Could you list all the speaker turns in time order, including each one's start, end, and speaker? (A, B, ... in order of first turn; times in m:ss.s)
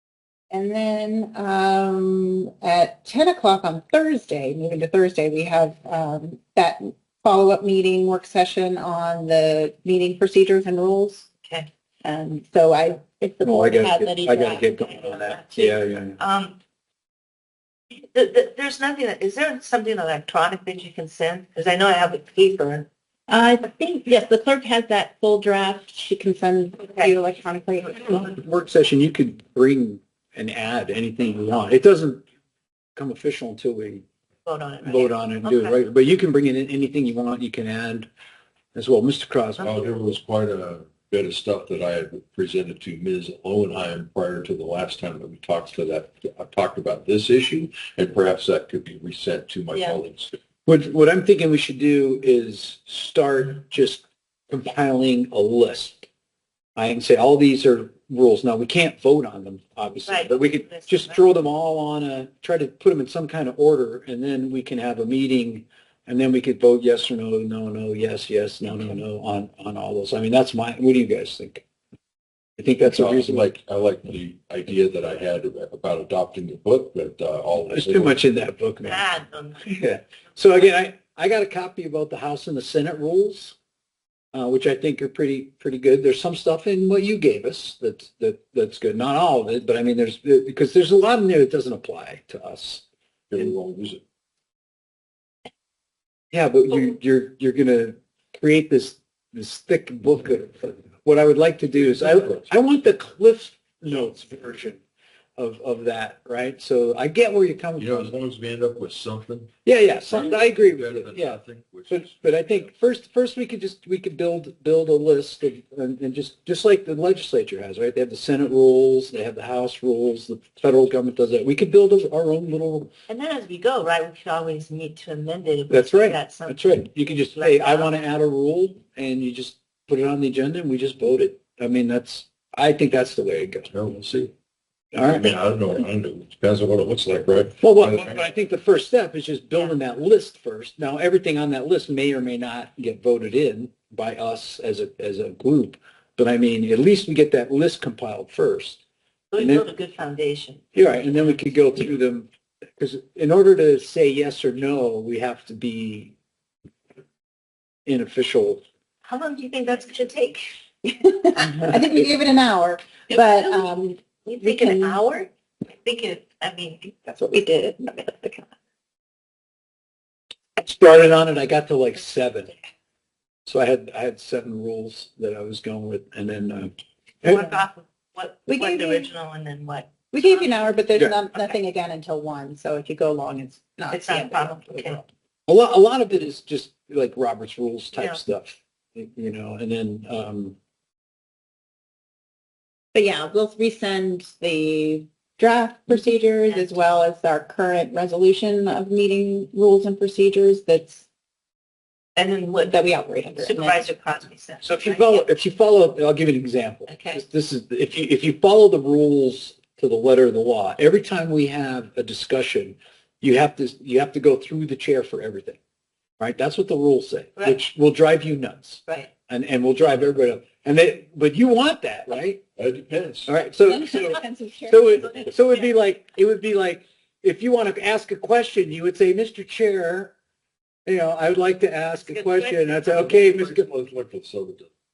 0:00.5-0:11.2 A
0:12.0-0:14.7 A
0:13.4-0:16.2 B
0:14.8-0:16.6 C
0:18.1-0:22.9 C
0:23.3-0:28.3 A
0:28.0-0:32.2 B
0:33.0-0:34.0 B
0:34.4-0:35.7 C
0:34.8-0:38.1 B
0:38.7-0:39.7 B
0:39.6-0:50.3 D
0:49.7-0:50.0 C
0:50.6-0:56.1 B
0:56.8-1:11.6 B
1:00.0-1:01.3 C
1:12.6-1:13.5 B
1:12.8-1:18.2 D
1:17.7-1:19.0 B
1:18.8-1:19.8 C
1:19.6-1:23.6 B
1:24.3-1:32.8 B
1:33.3-1:34.0 D
1:36.3-1:44.8 B
1:45.4-1:48.1 B
1:47.8-1:49.5 D
1:49.6-2:02.9 B
1:50.1-1:52.7 D
2:03.1-2:07.9 C
2:05.7-2:13.7 B
2:13.7-2:14.3 D
2:14.9-2:15.3 B
2:15.0-2:18.2 D
2:17.6-2:28.8 B
2:29.3-2:30.7 C
2:29.4-2:29.6 B
2:30.7-2:36.1 B
2:37.8-2:38.6 B
2:39.0-2:40.5 C
2:40.8-2:45.0 A
2:43.1-2:43.7 C
2:44.2-2:46.9 C
2:47.0-2:48.5 A
2:50.6-2:52.5 B
2:53.4-2:57.5 B
2:57.2-3:01.6 C
2:58.5-2:59.1 A
3:00.1-3:05.0 A
3:03.9-3:05.0 C
3:05.5-3:10.6 B
3:07.9-3:08.2 C
3:12.9-3:21.0 A
3:22.2-3:22.8 C
3:22.6-3:23.9 A
3:23.4-3:25.2 C
3:24.6-3:35.6 B
3:26.9-3:27.2 C
3:36.2-3:42.4 B
3:42.6-3:43.3 D
3:43.2-3:50.1 B
3:43.6-3:45.3 A
3:50.8-3:53.6 B
3:52.0-3:52.9 C
3:52.9-3:54.7 D